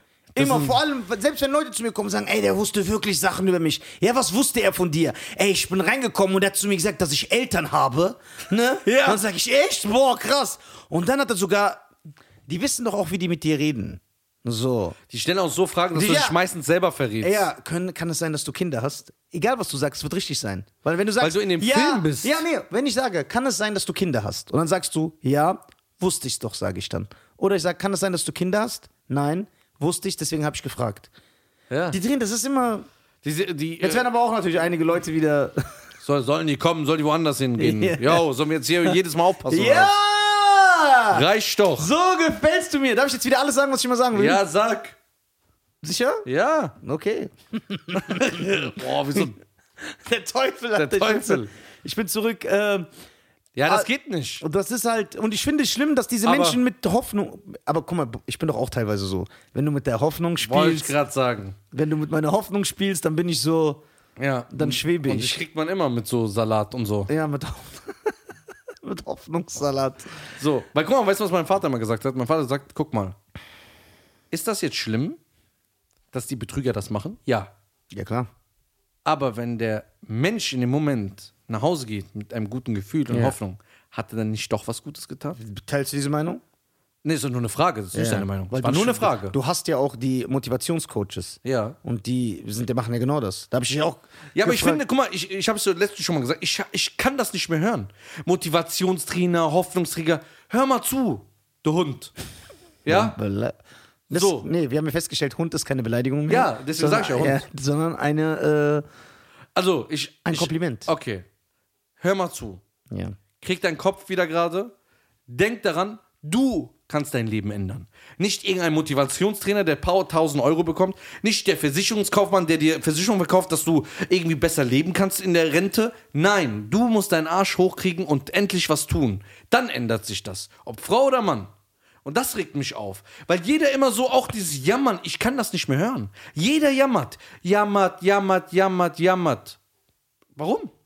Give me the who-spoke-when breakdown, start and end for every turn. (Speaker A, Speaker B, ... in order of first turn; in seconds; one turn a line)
Speaker A: 0.3-0.8
Speaker B: 0.4-11.8
Speaker A: 8.8-9.2
Speaker B: 12.5-14.9
Speaker A: 15.1-17.4
Speaker B: 15.9-16.4
Speaker B: 17.2-31.1
Speaker A: 21.2-22.4
Speaker A: 31.7-32.0
Speaker B: 31.9-32.9
Speaker A: 33.2-34.0
Speaker B: 33.8-35.6
Speaker A: 36.0-39.9
Speaker B: 37.6-38.2
Speaker B: 39.5-41.2
Speaker A: 41.1-41.9
Speaker B: 41.8-44.4
Speaker A: 44.1-45.0
Speaker B: 45.8-46.2
Speaker A: 46.2-46.8
Speaker B: 46.8-49.3
Speaker A: 47.9-49.4
Speaker B: 49.8-52.9
Speaker A: 50.7-51.5
Speaker A: 53.5-54.4
Speaker B: 54.4-60.9
Speaker A: 56.2-56.6
Speaker A: 60.4-61.6
Speaker B: 61.7-63.8
Speaker A: 64.2-67.1
Speaker B: 64.5-65.4
Speaker B: 67.1-68.1
Speaker B: 68.8-70.1
Speaker A: 70.4-73.2
Speaker A: 74.3-75.2
Speaker A: 76.1-77.5
Speaker B: 77.9-78.3
Speaker A: 79.0-85.4
Speaker B: 83.1-83.3
Speaker B: 85.4-86.4
Speaker A: 87.0-89.3
Speaker B: 87.9-94.8
Speaker A: 91.4-91.8
Speaker A: 94.3-102.1
Speaker A: 102.8-103.2
Speaker B: 102.9-103.6
Speaker B: 104.1-108.8
Speaker A: 104.1-104.5
Speaker A: 106.3-107.5
Speaker A: 109.5-111.3
Speaker B: 110.2-110.9
Speaker A: 112.0-112.6
Speaker B: 112.9-113.1
Speaker A: 113.4-114.7
Speaker A: 115.3-131.5
Speaker A: 132.0-139.6
Speaker A: 140.3-140.7